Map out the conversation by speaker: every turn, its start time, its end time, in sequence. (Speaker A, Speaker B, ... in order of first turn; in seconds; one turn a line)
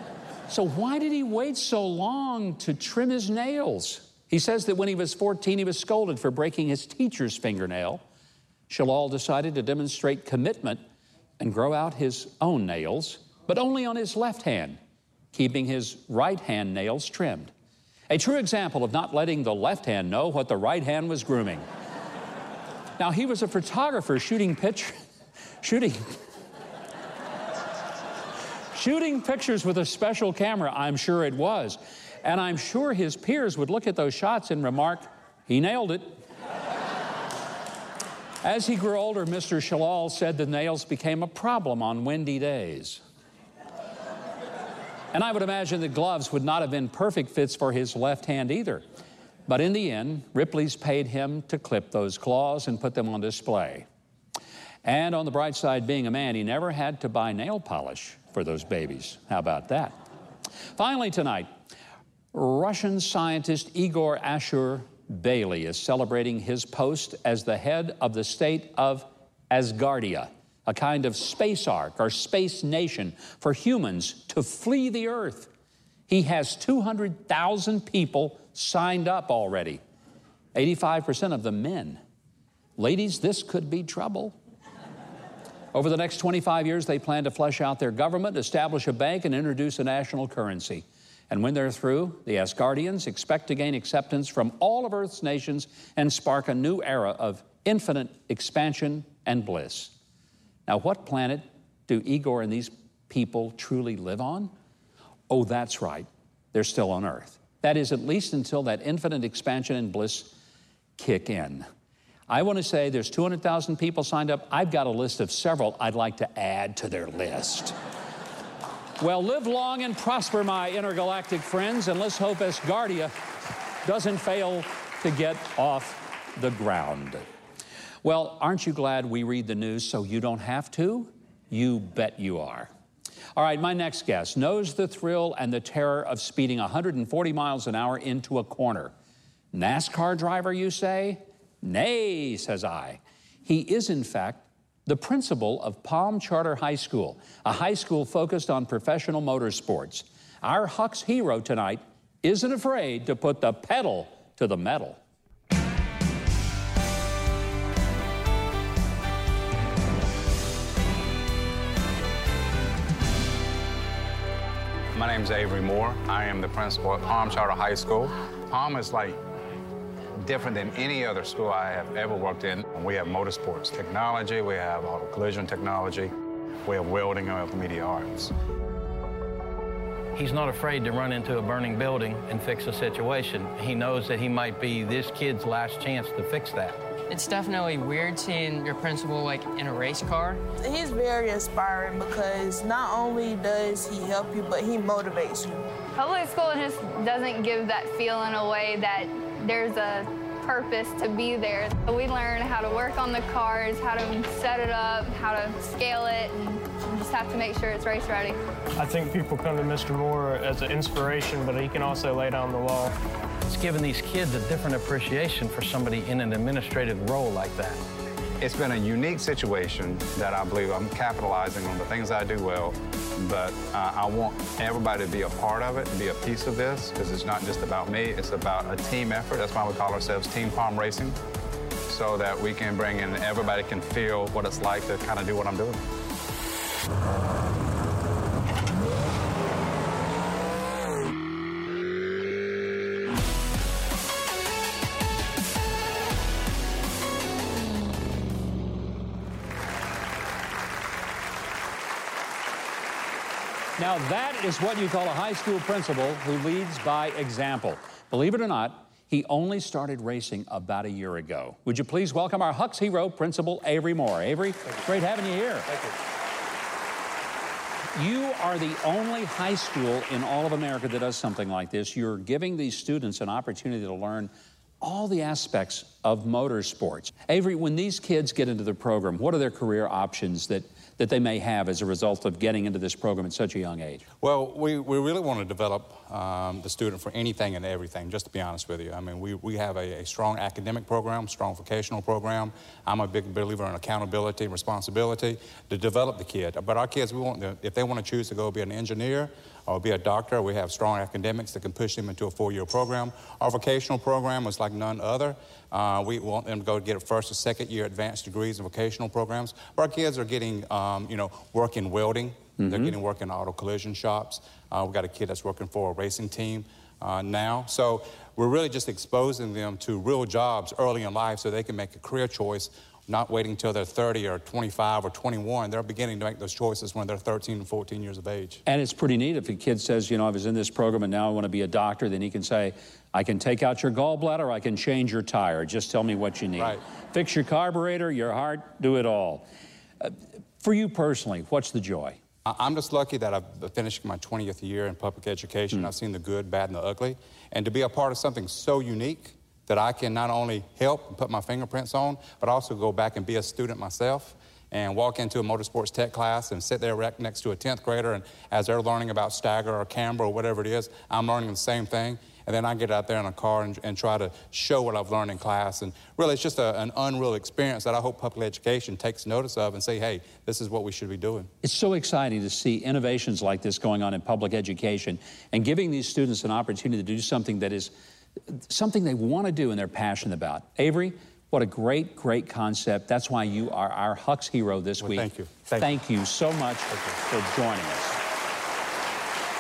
Speaker A: 0.5-8.0
Speaker A: 8.7-10.8
Speaker A: 11.4-14.8
Speaker A: 15.3-17.5
Speaker A: 18.1-21.7
Speaker A: 23.0-25.0
Speaker A: 25.6-26.2
Speaker A: 28.7-36.2
Speaker A: 38.4-43.0
Speaker A: 45.1-48.9
Speaker A: 49.5-53.9
Speaker A: 54.8-60.0
Speaker A: 60.8-61.5
Speaker A: 62.3-75.5
Speaker A: 76.1-79.8
Speaker A: 80.5-82.0
Speaker A: 82.8-84.4
Speaker A: 85.7-99.9
Speaker A: 100.7-104.5
Speaker A: 105.3-110.3
Speaker A: 111.0-111.7
Speaker A: 112.3-117.8
Speaker A: 119.0-123.2
Speaker A: 123.8-127.2
Speaker A: 128.0-132.7
Speaker A: 133.4-138.9
Speaker A: 139.5-155.0
Speaker B: 164.9-169.2
Speaker B: 170.2-176.1
Speaker B: 176.7-178.3
Speaker C: 180.2-186.8
Speaker D: 187.1-190.4
Speaker E: 190.6-195.6
Speaker F: 196.0-208.4
Speaker G: 208.8-213.0
Speaker C: 213.5-217.8
Speaker B: 218.4-231.2
Speaker B: 231.9-235.8
Speaker A: 253.8-265.7
Speaker A: 267.9-284.1
Speaker H: 284.2-328.6
Speaker A: 312.6-312.9
Speaker A: 328.7-339.4
Speaker A: 340.0-342.2
Speaker H: 342.5-371.5
Speaker A: 371.6-377.9
Speaker A: 378.5-388.2
Speaker H: 385.0-385.9